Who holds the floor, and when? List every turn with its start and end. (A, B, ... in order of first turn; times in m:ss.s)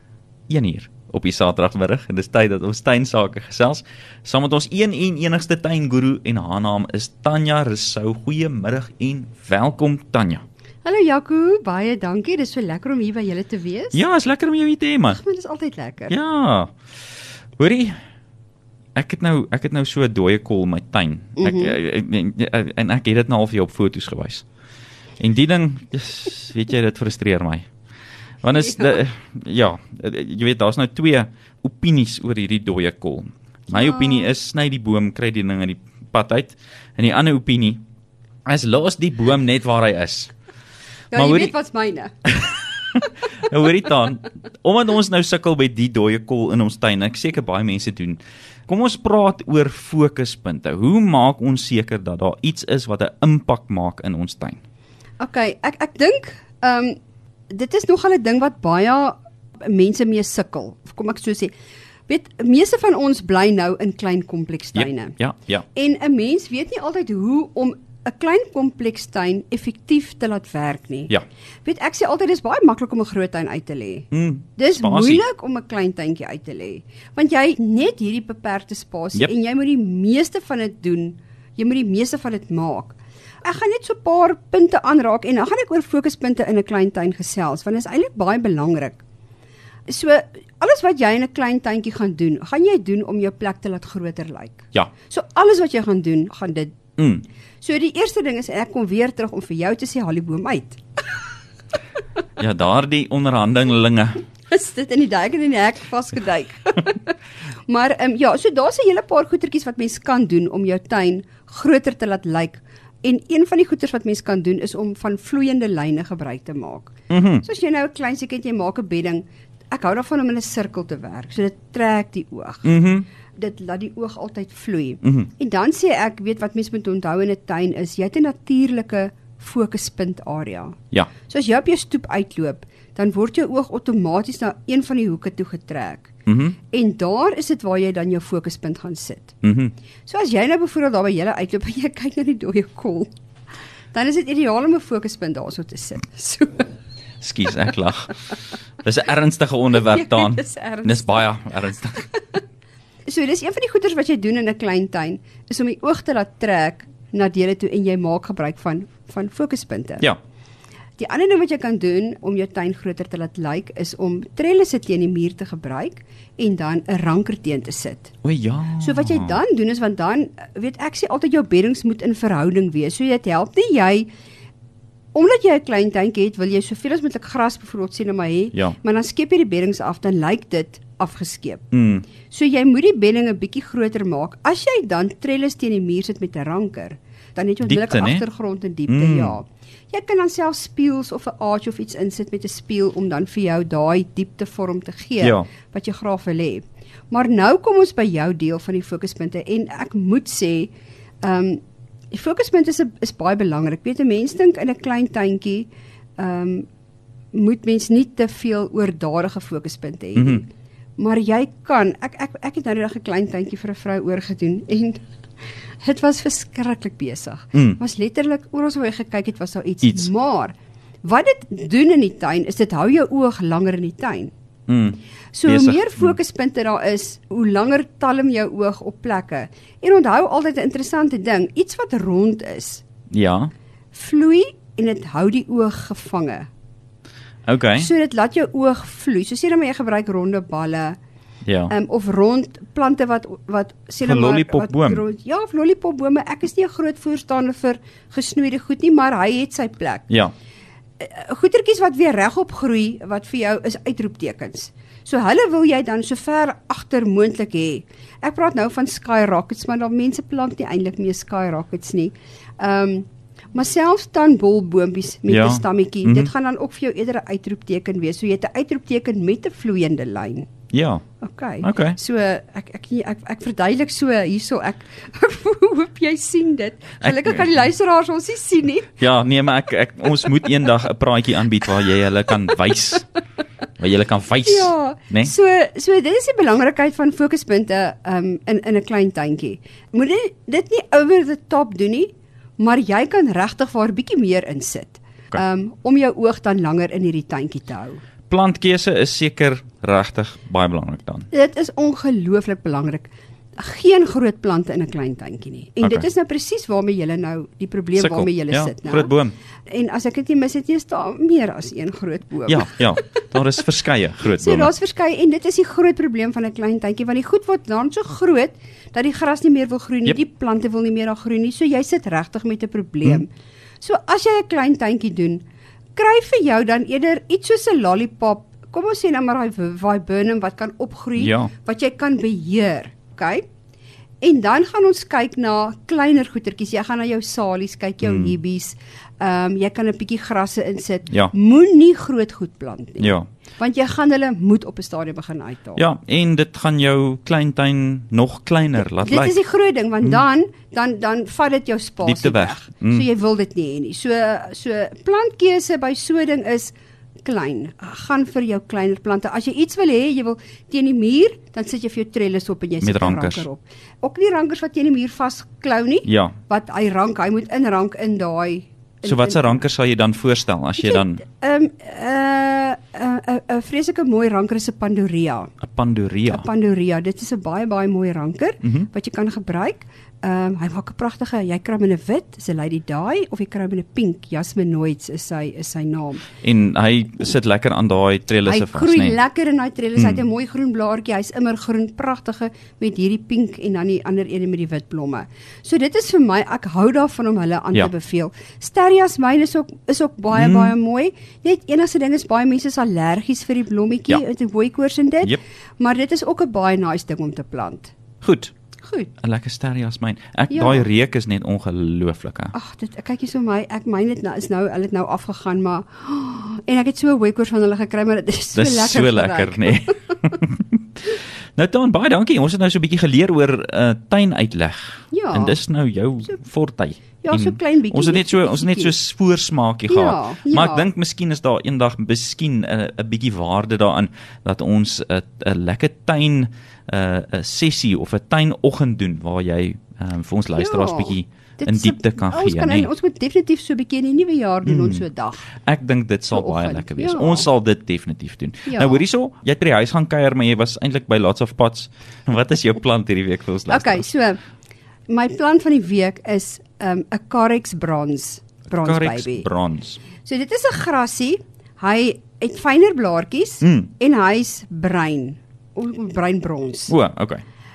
0:00.5-0:10.4 A
0:10.8-0:14.0 B
0:13.9-0:15.2 A
0:15.1-0:16.1 B
0:16.1-0:16.7 A
0:17.6-0:18.0 A
0:19.0-0:24.4 A
0:21.4-0:21.8 B
0:25.2-0:27.6 A
0:28.4-0:37.8 A
0:28.6-0:28.9 B
0:33.7-0:34.3 B
0:38.4-0:40.3 A
0:41.1-0:42.4 B
0:41.1-0:41.5 A
0:42.3-0:54.6 A
0:55.2-0:57.0 B
0:57.5-1:01.5 B
1:02.1-1:05.2 B
1:04.7-1:05.6 A
1:05.7-1:11.1 B
1:11.6-1:29.0 B
1:14.1-1:15.2 A
1:29.9-1:36.8 B
1:37.0-1:37.2 A
1:37.6-1:40.8 B
1:42.4-1:44.2 A
1:44.5-1:47.2 B
1:47.7-2:02.7 B
1:57.1-1:57.4 A
2:02.6-2:03.0 A
2:03.4-2:16.1 B
2:05.0-2:05.3 A
2:16.2-2:16.6 A
2:16.7-2:19.3 B
2:19.4-2:19.7 A
2:20.0-2:23.1 B
2:23.9-2:26.7 B
2:27.2-2:28.2 A
2:28.8-2:32.1 A
2:29.7-2:31.2 B
2:33.1-2:40.0 B
2:41.0-2:48.1 B
2:48.2-2:49.4 A
2:48.8-2:54.1 B
2:55.1-3:01.6 B
3:01.7-3:02.0 A
3:02.3-3:26.7 B
3:07.6-3:08.2 A
3:08.9-3:09.4 A
3:15.2-3:15.5 A
3:27.3-3:30.5 B
3:30.2-3:30.4 A
3:31.0-3:35.0 B
3:35.8-3:44.3 B
3:39.8-3:40.1 A
3:44.7-3:46.1 A
3:45.3-3:52.8 B
3:53.1-3:53.5 A
3:53.9-3:56.5 B
3:57.5-3:57.9 A
3:57.8-4:01.0 B
4:01.4-4:01.7 A
4:01.7-4:10.0 B
4:04.0-4:05.0 A
4:11.0-4:30.5 B
4:25.3-4:26.3 A
4:30.7-4:31.0 A
4:31.2-4:38.9 B
4:31.6-4:32.0 A
4:37.0-4:37.5 A
4:39.0-4:43.0 A
4:43.8-4:45.3 A
4:44.4-4:58.0 B
4:58.3-5:01.3 A
5:01.3-5:09.1 B
5:08.0-5:09.3 A
5:09.7-5:13.0 B
5:12.5-5:14.7 A
5:14.2-5:23.3 B
5:23.8-5:25.4 B
5:26.0-5:33.4 B
5:31.2-5:31.5 A
5:34.2-5:45.8 B
5:38.0-5:38.3 A
5:43.0-5:43.3 A
5:45.8-5:49.4 A
5:49.0-6:09.6 B
5:52.0-5:53.0 A
6:02.8-6:03.4 A
6:06.0-6:06.3 A
6:09.0-6:11.2 A
6:10.8-6:15.5 B
6:15.6-6:16.4 A
6:16.3-6:26.2 B
6:26.4-6:29.2 A
6:28.4-6:47.9 B
6:30.0-6:30.2 A
6:40.3-6:40.7 A
6:48.2-6:48.5 A
6:48.8-6:49.1 B
6:49.2-6:52.5 A
6:50.5-6:50.9 B
6:52.5-7:00.4 B
6:58.5-7:22.9 A
7:05.1-7:05.6 B
7:07.2-7:09.0 B
7:09.9-7:10.9 B
7:20.6-7:25.5 B
7:24.6-7:25.0 A
7:25.6-7:34.1 A
7:26.3-7:27.5 B
7:28.7-7:29.0 B
7:33.7-7:34.4 B
7:35.1-7:39.5 B
7:38.7-7:40.0 A
7:40.2-7:46.9 B
7:43.6-7:43.9 A
7:46.9-7:47.4 A